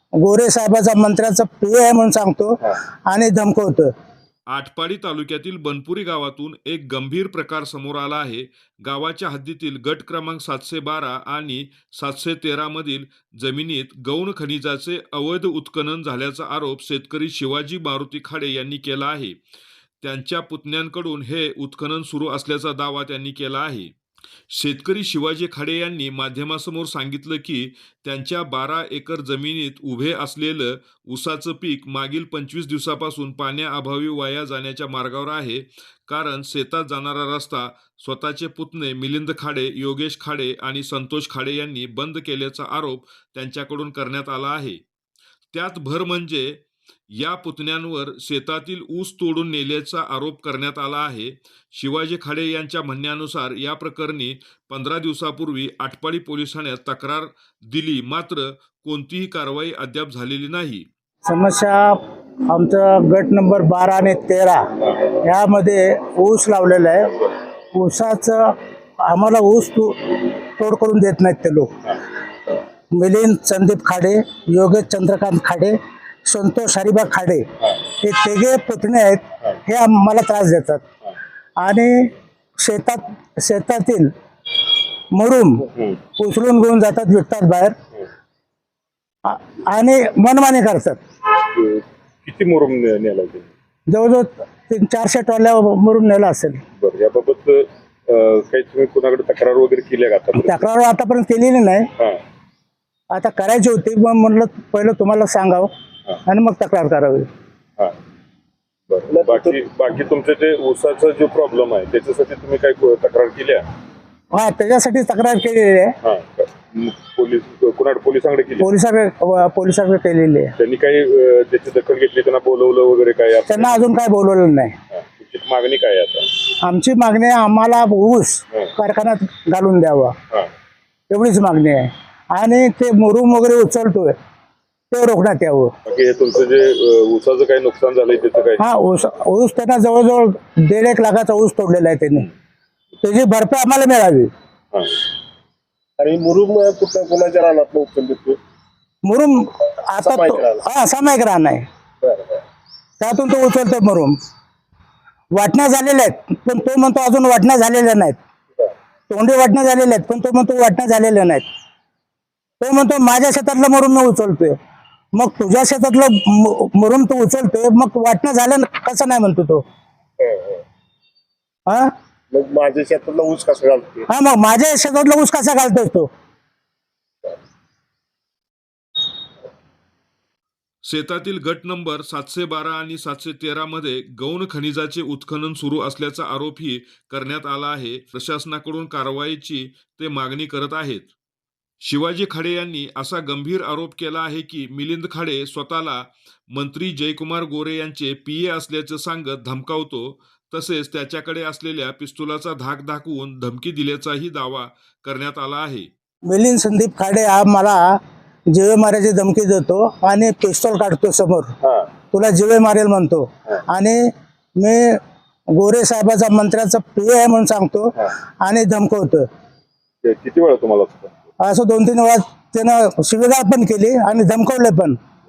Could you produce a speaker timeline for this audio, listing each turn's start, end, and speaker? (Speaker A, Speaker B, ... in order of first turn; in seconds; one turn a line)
Speaker A: 0.2-3.9
Speaker B: 4.5-19.4
Speaker B: 20.0-23.9
Speaker B: 24.5-44.8
Speaker B: 45.5-60.9
Speaker A: 61.2-67.1
Speaker A: 67.7-71.7
Speaker A: 72.9-77.4
Speaker A: 78.0-80.8
Speaker A: 81.6-84.1
Speaker A: 85.1-87.7
Speaker C: 85.7-86.0
Speaker A: 89.2-91.0
Speaker C: 91.3-93.5
Speaker A: 93.9-96.6
Speaker C: 96.8-100.6
Speaker A: 100.3-101.9
Speaker A: 103.1-105.7
Speaker A: 106.2-107.2
Speaker C: 108.9-113.7
Speaker D: 109.1-109.6
Speaker A: 114.3-115.9
Speaker C: 116.0-118.7
Speaker A: 118.6-120.5
Speaker C: 120.6-123.9
Speaker A: 123.5-124.7
Speaker C: 124.9-126.3
Speaker A: 126.6-130.1
Speaker A: 131.1-134.2
Speaker A: 134.9-135.7
Speaker C: 135.8-138.6
Speaker A: 138.6-142.3
Speaker A: 143.0-144.3
Speaker D: 146.0-148.4
Speaker A: 149.0-151.6
Speaker D: 150.0-150.6
Speaker D: 152.0-152.4
Speaker A: 153.0-154.2
Speaker A: 155.3-158.2
Speaker A: 159.1-161.4
Speaker A: 162.6-164.6
Speaker A: 165.1-169.6
Speaker D: 170.2-170.6
Speaker A: 171.7-171.9
Speaker D: 172.3-174.1
Speaker A: 174.1-176.1
Speaker B: 180.8-191.1
Speaker B: 191.8-205.9
Speaker A: 206.2-208.0
Speaker A: 208.5-211.5
Speaker C: 211.6-211.9
Speaker A: 212.1-215.0
Speaker A: 215.5-219.2
Speaker C: 220.0-221.2
Speaker A: 221.4-225.0